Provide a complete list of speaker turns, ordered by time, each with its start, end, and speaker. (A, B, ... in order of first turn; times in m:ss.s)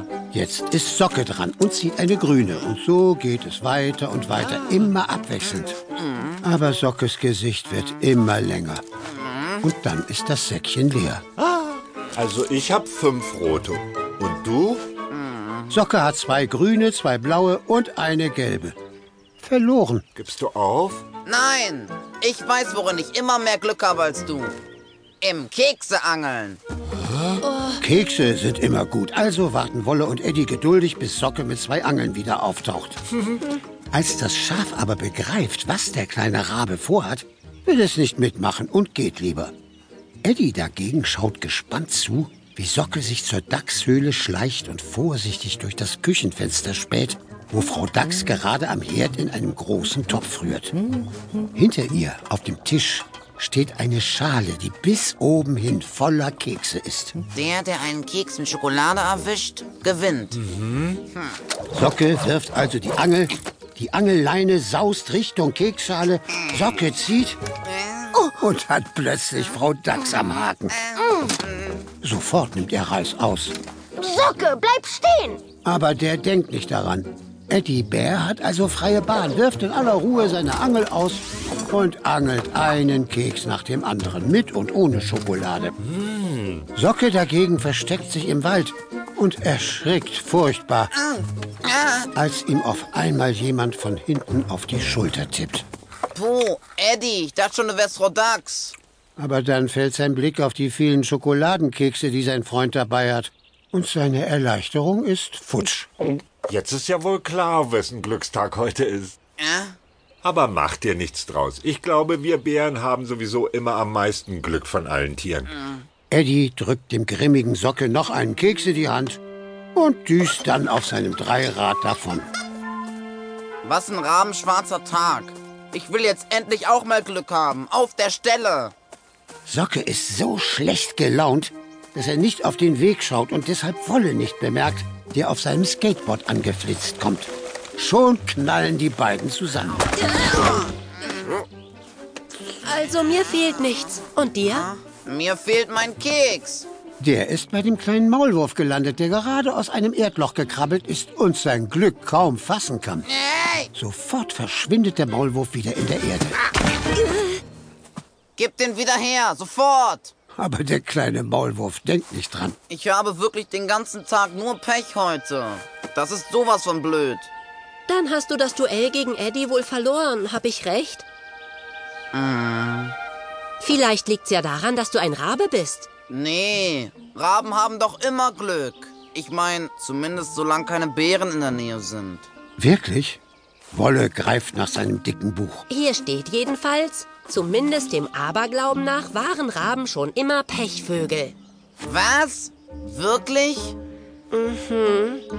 0:00.3-0:05.8 A
0:06.0-0:06.4 B
0:06.4-0:08.8 A
0:09.0-0:09.6 B
0:09.6-0:11.2 A
0:11.4-0:14.9 C
0:15.1-0:15.7 B
0:15.7-0:18.7 A
0:19.4-0:20.0 A
0:20.1-0:21.0 C
0:21.2-0:24.5 B
0:25.2-0:26.6 B
0:27.0-0:27.4 C
0:27.4-0:27.8 D
0:27.8-0:33.0 A
0:33.9-0:39.5 A
0:40.2-0:50.7 A
0:51.5-0:57.2 A
0:57.3-1:00.4 B
1:00.4-1:01.0 C
1:01.7-1:07.4 A
1:07.6-1:08.2 B
1:08.3-1:10.9 A
1:10.7-1:11.8 B
1:12.0-1:13.5 A
1:14.0-1:15.4 D
1:15.6-1:25.8 A
1:25.9-1:26.6 C
1:26.7-1:30.9 A
1:30.9-1:32.1 B
1:32.1-1:35.6 A
1:36.1-1:38.7 B
1:39.2-1:45.9 A
1:46.5-1:49.1 C
1:49.4-1:49.8 B
1:50.2-1:55.7 C
1:56.1-1:59.2 A
1:59.7-2:02.3 A
2:03.6-2:08.7 B
2:09.5-2:19.9 A
2:20.1-2:20.6 D
2:20.6-2:21.1 B
2:22.6-2:24.6 D
2:24.4-2:26.7 B
2:27.0-2:33.0 A
2:33.1-2:33.7 B
2:33.7-2:36.4 A
2:38.4-2:40.1 B
2:40.4-2:42.6 A
2:42.7-2:47.3 B
2:47.9-2:51.0 D
2:52.1-2:52.9 B
2:53.6-2:55.9 D
2:56.1-3:02.3 B
3:02.6-3:03.2 A
3:03.7-3:05.6 A
3:05.7-3:11.3 D
3:11.8-3:13.8 B
3:14.3-3:15.2 D